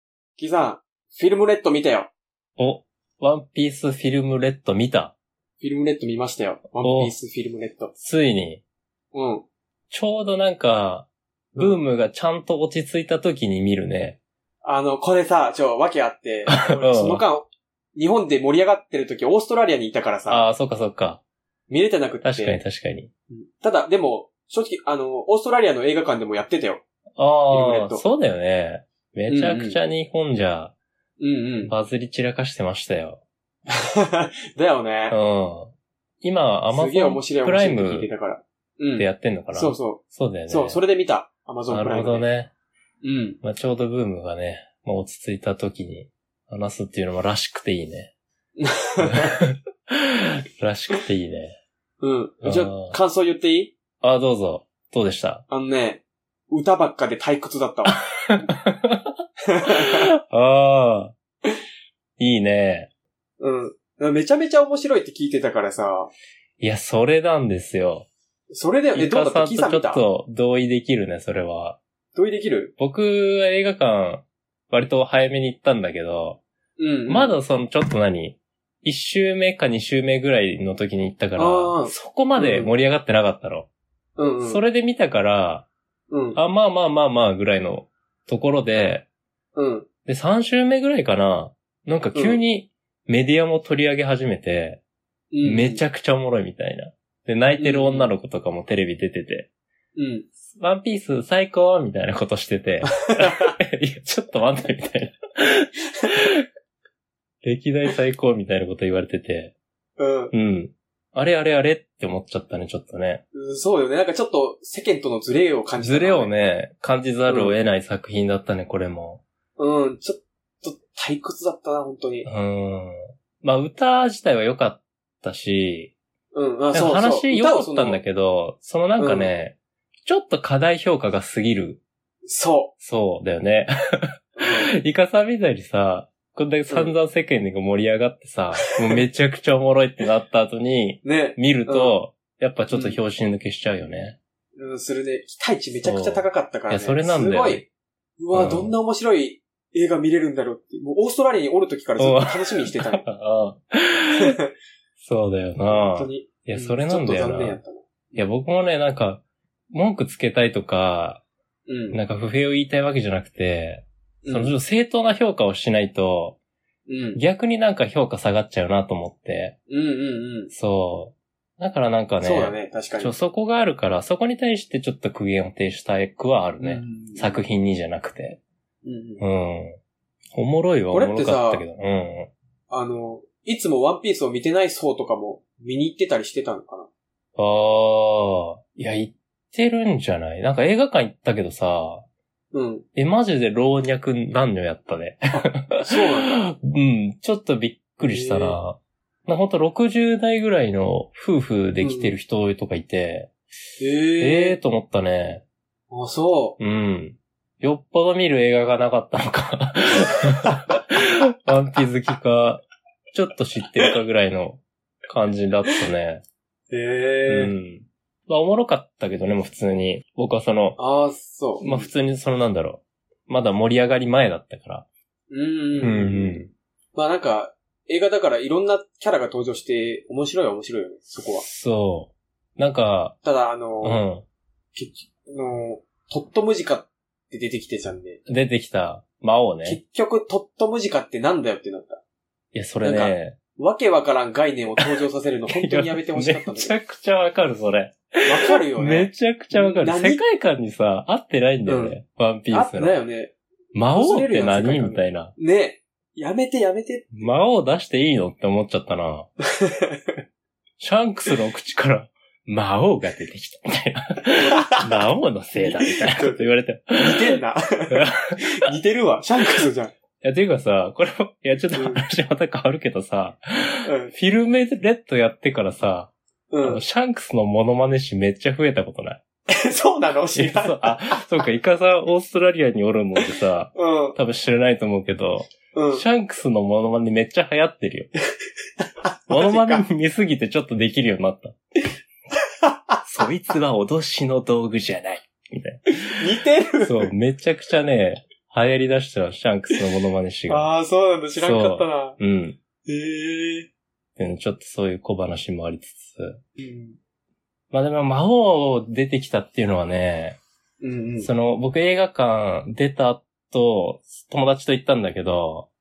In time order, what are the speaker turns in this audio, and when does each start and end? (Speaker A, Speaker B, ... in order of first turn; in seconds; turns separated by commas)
Speaker A: 0.4-2.1, Speaker B: 2.6-5.1, Speaker A: 5.6-7.9, Speaker B: 6.8-7.2, Speaker B: 8.0-8.6, Speaker A: 9.1-9.5, Speaker B: 9.9-14.2, Speaker A: 11.6-11.8, Speaker A: 14.6-20.5, Speaker B: 16.5-17.2, Speaker B: 20.3-21.2, Speaker A: 21.7-22.6, Speaker B: 22.2-23.1, Speaker A: 23.3-26.8, Speaker B: 27.2-30.7, Speaker A: 27.5-28.0, Speaker A: 29.3-29.8, Speaker A: 31.2-31.7, Speaker B: 31.6-33.2, Speaker A: 34.0-35.2, Speaker B: 35.1-38.1, Speaker A: 36.7-42.3, Speaker B: 39.0-40.8, Speaker B: 41.7-42.5, Speaker A: 43.0-43.4, Speaker B: 43.4-48.1, Speaker A: 48.6-49.4, Speaker B: 50.6-51.6, Speaker A: 52.0-53.7, Speaker B: 52.4-53.0, Speaker B: 54.0-55.4, Speaker A: 55.5-58.0, Speaker B: 57.9-59.0, Speaker A: 59.5-60.1, Speaker B: 59.8-61.1, Speaker B: 62.2-62.9, Speaker A: 63.4-66.1, Speaker B: 66.6-68.1, Speaker A: 68.5-70.0, Speaker B: 68.9-71.8, Speaker A: 72.1-72.7, Speaker B: 72.8-76.4, Speaker A: 76.8-77.4, Speaker B: 77.1-83.7, Speaker A: 81.4-82.7, Speaker A: 84.2-84.6, Speaker B: 84.4-85.7, Speaker A: 86.1-86.4, Speaker B: 86.3-89.0, Speaker A: 89.5-89.9, Speaker B: 90.1-94.8, Speaker A: 92.2-92.4, Speaker A: 95.3-95.8, Speaker B: 95.4-99.5, Speaker A: 97.6-98.1, Speaker A: 100.0-100.3, Speaker B: 100.6-106.4, Speaker A: 103.0-103.5, Speaker B: 107.4-109.5, Speaker A: 110.0-110.3, Speaker B: 110.3-113.2, Speaker A: 113.3-116.3, Speaker B: 115.8-119.2, Speaker A: 117.3-117.6, Speaker A: 119.6-122.3, Speaker B: 122.2-125.9, Speaker A: 126.3-128.0, Speaker B: 126.7-131.8, Speaker A: 129.0-129.3, Speaker A: 132.3-132.7, Speaker B: 132.8-144.2, Speaker A: 134.4-134.7, Speaker A: 136.7-137.0, Speaker A: 141.0-141.9, Speaker A: 142.7-143.0, Speaker A: 144.6-147.7, Speaker B: 145.8-147.7, Speaker A: 148.2-153.1, Speaker B: 148.3-148.7, Speaker B: 152.0-154.4, Speaker A: 154.1-154.4, Speaker B: 155.0-157.6, Speaker A: 155.7-158.3, Speaker B: 158.2-161.2, Speaker A: 161.7-162.0, Speaker B: 161.9-166.4, Speaker A: 164.2-164.6, Speaker A: 166.9-167.2, Speaker B: 167.2-169.6, Speaker A: 169.7-170.5, Speaker B: 170.5-178.4, Speaker A: 172.2-173.2, Speaker A: 176.6-177.4, Speaker A: 178.8-179.2, Speaker B: 179.2-179.8, Speaker B: 180.3-182.3, Speaker A: 180.9-181.7, Speaker A: 182.7-186.9, Speaker B: 187.4-192.1, Speaker A: 192.5-192.9, Speaker B: 193.0-203.3, Speaker A: 195.3-196.4, Speaker A: 198.0-198.6, Speaker A: 201.8-202.2, Speaker A: 203.8-204.6, Speaker B: 204.2-205.4, Speaker A: 205.9-206.6, Speaker B: 206.6-216.2, Speaker A: 216.7-217.6, Speaker B: 217.3-220.8, Speaker A: 220.8-221.9, Speaker B: 221.6-224.9, Speaker A: 225.3-226.4, Speaker B: 225.8-226.5, Speaker A: 226.9-231.5, Speaker B: 231.3-233.2, Speaker A: 233.2-234.0, Speaker B: 233.8-234.2, Speaker A: 234.8-238.2, Speaker B: 238.3-239.8, Speaker A: 239.6-242.0, Speaker B: 242.5-243.4, Speaker A: 242.8-246.7, Speaker B: 245.5-253.0, Speaker A: 248.2-250.2, Speaker A: 251.7-252.0, Speaker A: 252.5-253.3, Speaker B: 253.7-255.3, Speaker A: 253.9-257.3, Speaker B: 257.2-259.3, Speaker A: 259.6-260.0, Speaker B: 260.8-267.3, Speaker A: 265.6-268.0, Speaker B: 267.9-268.4, Speaker A: 268.5-269.9, Speaker B: 270.2-279.2, Speaker A: 271.7-272.0, Speaker A: 273.9-274.1, Speaker A: 276.5-276.8, Speaker A: 279.5-281.2, Speaker B: 280.4-288.1, Speaker A: 283.8-284.2, Speaker A: 285.7-286.1, Speaker A: 288.8-289.9, Speaker B: 289.3-291.6, Speaker A: 292.7-293.0, Speaker B: 293.1-296.0, Speaker A: 296.2-297.1, Speaker B: 296.8-300.7, Speaker A: 300.5-302.2, Speaker B: 301.4-302.6, Speaker A: 302.9-303.7, Speaker B: 304.2-306.4, Speaker A: 306.6-307.0, Speaker B: 307.7-310.4, Speaker A: 310.8-311.3, Speaker B: 311.2-315.7